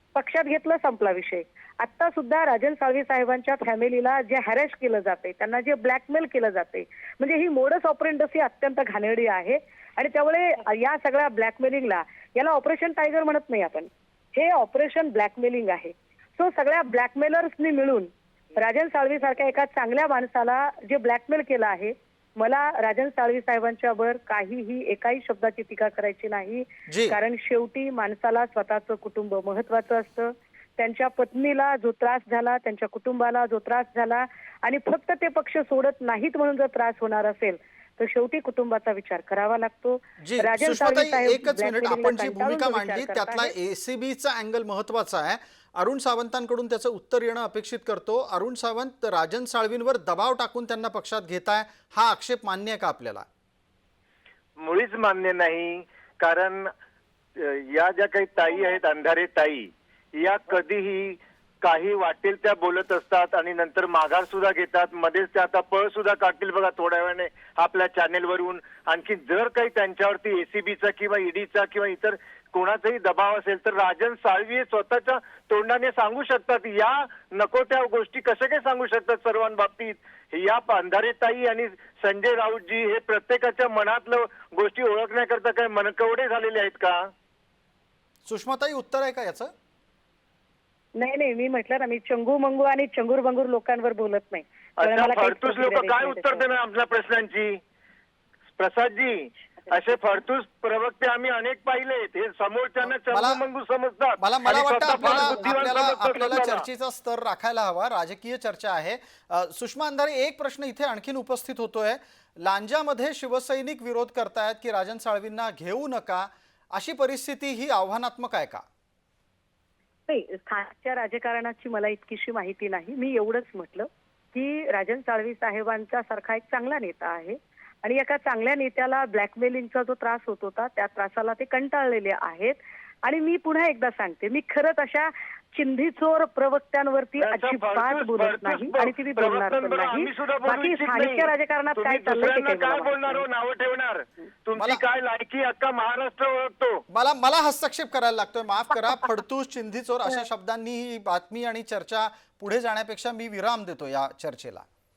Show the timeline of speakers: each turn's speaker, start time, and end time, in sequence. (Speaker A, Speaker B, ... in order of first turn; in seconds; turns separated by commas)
Speaker A: 0.1-43.5, Speaker B: 26.9-27.2, Speaker B: 40.2-53.3, Speaker C: 54.6-56.7, Speaker C: 57.4-87.0, Speaker B: 88.3-89.5, Speaker A: 91.0-96.5, Speaker C: 94.8-97.6, Speaker C: 98.6-106.7, Speaker B: 102.8-103.4, Speaker B: 104.2-118.6, Speaker A: 104.9-105.7, Speaker A: 120.1-143.3, Speaker C: 137.2-146.8, Speaker B: 144.6-144.8, Speaker B: 146.9-154.7